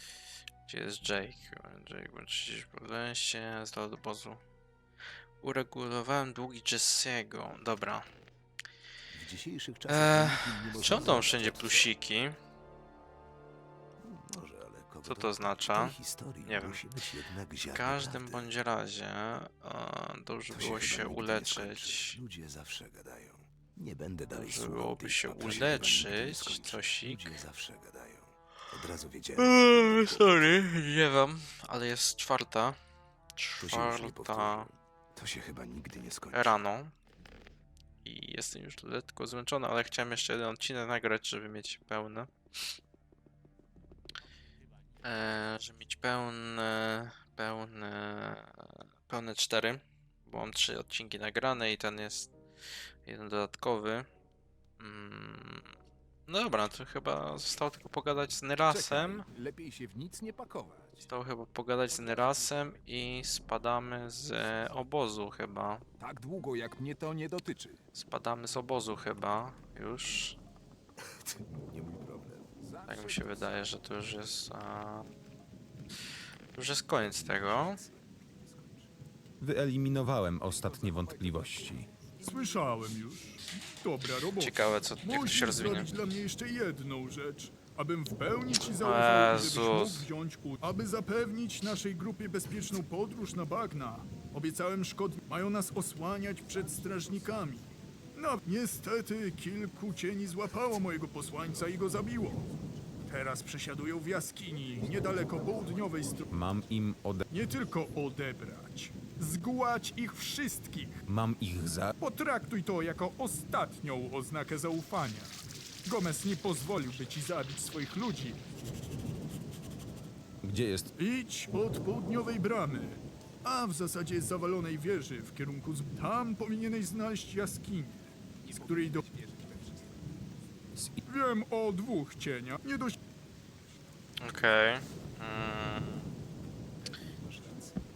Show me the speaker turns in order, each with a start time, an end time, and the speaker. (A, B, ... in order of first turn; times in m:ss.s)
0:00.7-0:04.4 A
0:05.4-0:08.1 A
0:09.1-0:11.9 B
0:09.9-0:12.4 A
0:14.0-0:18.5 B
0:15.0-0:16.8 A
0:17.7-0:22.2 A
0:20.5-0:30.5 B
0:24.3-0:27.4 A
0:29.4-0:32.8 A
0:33.4-0:34.7 A
0:33.6-0:36.6 B
0:36.3-0:36.9 A
0:38.0-0:42.3 A
0:45.0-0:52.3 A
0:53.0-0:54.1 A
0:54.8-0:55.7 A
0:56.3-0:59.2 A
0:58.7-1:01.1 C
1:01.0-1:05.8 A
1:01.9-1:03.0 B
1:04.1-1:04.8 B
1:06.0-1:07.8 C
1:07.9-1:10.4 A
1:11.2-1:12.7 B
1:12.6-1:13.6 C
1:12.9-1:15.1 A
1:16.5-1:17.8 A
1:16.9-1:18.9 B
1:19.4-1:21.9 D
1:20.5-1:21.8 C
1:21.8-1:23.0 B
1:22.2-1:42.5 E
1:24.4-1:25.9 A
1:28.7-1:30.1 A
1:36.5-1:37.6 B
1:43.0-1:46.3 E
1:46.3-1:47.2 D
1:47.3-1:51.0 E
1:51.1-1:51.9 D
1:52.0-1:58.4 E
2:00.4-2:00.9 D
2:01.0-2:09.0 E
2:08.5-2:09.8 C
2:08.5-2:10.0 B
2:11.0-2:13.0 E
2:14.2-2:16.1 A
2:16.8-2:17.9 B